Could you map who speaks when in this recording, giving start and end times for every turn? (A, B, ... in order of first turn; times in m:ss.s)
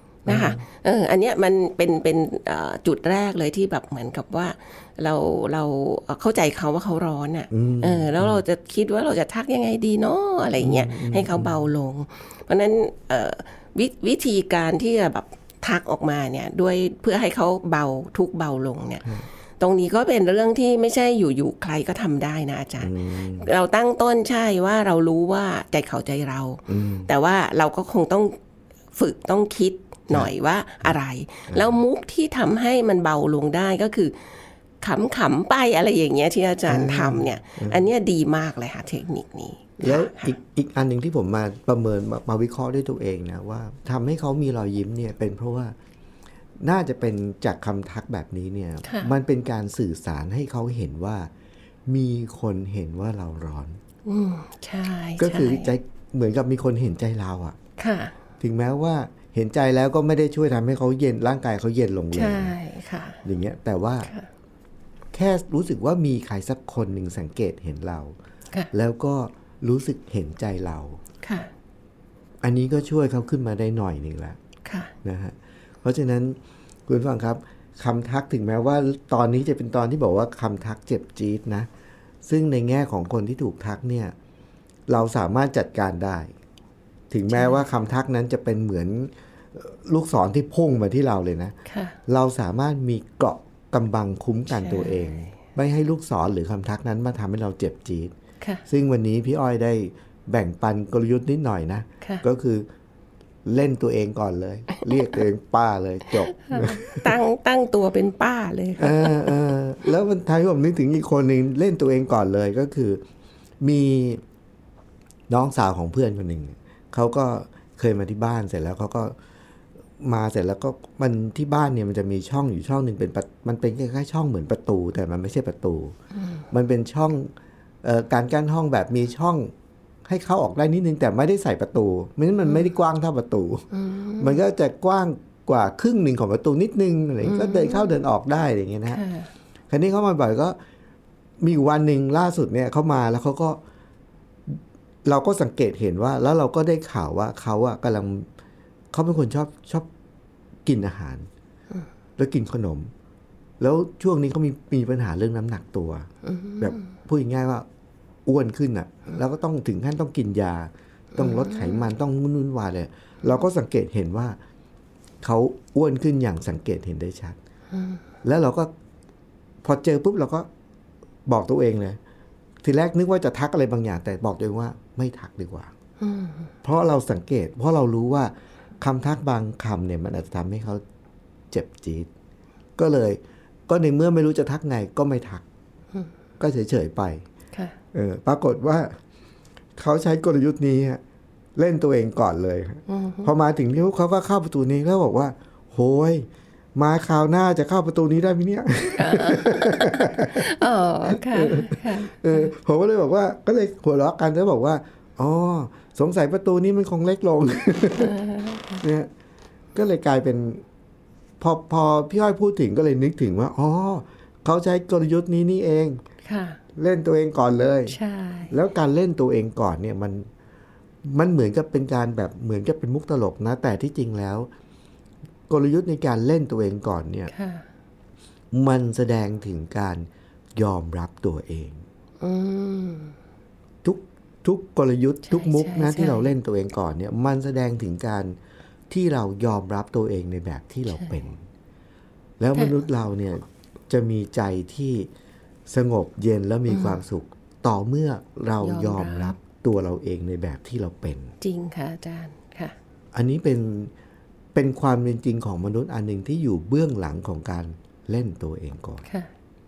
0:00.3-0:00.6 A
0:00.3-0:28.4 B
0:07.5-0:08.4 A
0:10.6-0:11.6 A
0:22.8-0:23.5 A
0:26.7-0:27.1 A
0:28.9-0:34.2 B
0:31.5-0:31.8 A
0:34.8-0:40.4 B
0:36.7-0:37.9 A
0:39.8-0:45.8 A
0:46.6-0:51.3 A
0:48.8-0:49.1 B
0:51.9-0:53.8 A
0:54.0-0:55.7 B
0:55.2-0:57.6 A
0:57.8-0:58.1 B
0:58.4-1:02.6 A
1:02.1-1:03.2 B
1:03.2-1:04.1 A
1:05.1-1:08.2 A
1:08.7-1:11.0 A
1:11.2-1:11.5 B
1:12.4-1:14.4 A
1:14.6-1:14.9 B
1:15.0-1:21.7 A
1:22.2-1:24.2 A
1:24.9-1:26.3 A
1:27.1-1:31.6 A
1:27.3-1:27.6 B
1:31.7-1:32.0 B
1:32.1-1:38.1 A
1:34.5-1:35.3 B
1:38.7-1:42.7 A
1:43.4-1:47.0 A
1:46.3-1:49.3 B
1:48.8-1:53.0 A
1:53.6-1:54.2 A
1:55.3-1:59.2 A
2:00.0-2:06.0 A
2:06.2-2:06.4 B
2:06.5-2:09.5 A
2:10.1-2:19.0 A
2:13.7-2:14.4 B
2:17.2-2:17.9 B
2:18.9-2:19.3 B
2:19.7-2:20.6 A
2:21.4-2:23.6 A
2:24.5-2:28.3 A
2:28.9-2:29.9 A
2:30.7-2:31.3 A
2:32.2-2:32.9 A
2:33.6-2:36.1 A
2:36.2-2:36.8 B
2:36.6-2:37.7 A
2:38.3-2:44.4 A
2:41.2-2:41.8 B
2:45.2-2:47.4 A
2:47.7-2:48.0 B
2:48.2-2:48.7 A
2:49.6-2:50.5 A
2:51.3-2:52.0 A
2:52.6-2:55.7 A
2:56.0-2:56.5 B
2:56.6-3:00.8 A
3:01.5-3:02.1 A
3:02.8-3:05.4 A
3:06.4-3:07.3 A
3:07.9-3:09.0 A
3:09.8-3:11.0 A
3:11.6-3:20.5 A
3:12.9-3:13.3 B
3:19.0-3:22.5 B
3:21.1-3:28.2 A
3:28.0-3:28.8 B
3:28.8-3:29.1 A
3:29.8-3:30.6 A
3:31.4-3:36.0 A
3:36.2-3:36.6 B
3:36.8-3:38.0 A
3:37.9-3:38.5 B
3:38.5-3:40.3 A
3:41.0-3:44.5 A
3:45.5-3:47.3 A
3:47.3-3:47.6 B
3:48.5-3:51.8 A
3:52.2-3:53.1 B
3:53.8-3:58.4 A
3:55.2-3:56.3 B
3:58.9-4:01.4 A
4:02.4-4:05.1 A
4:05.7-4:11.4 A
4:06.7-4:07.0 B
4:08.6-4:09.4 B
4:11.4-4:12.8 B
4:13.1-4:13.9 A
4:14.5-4:19.0 A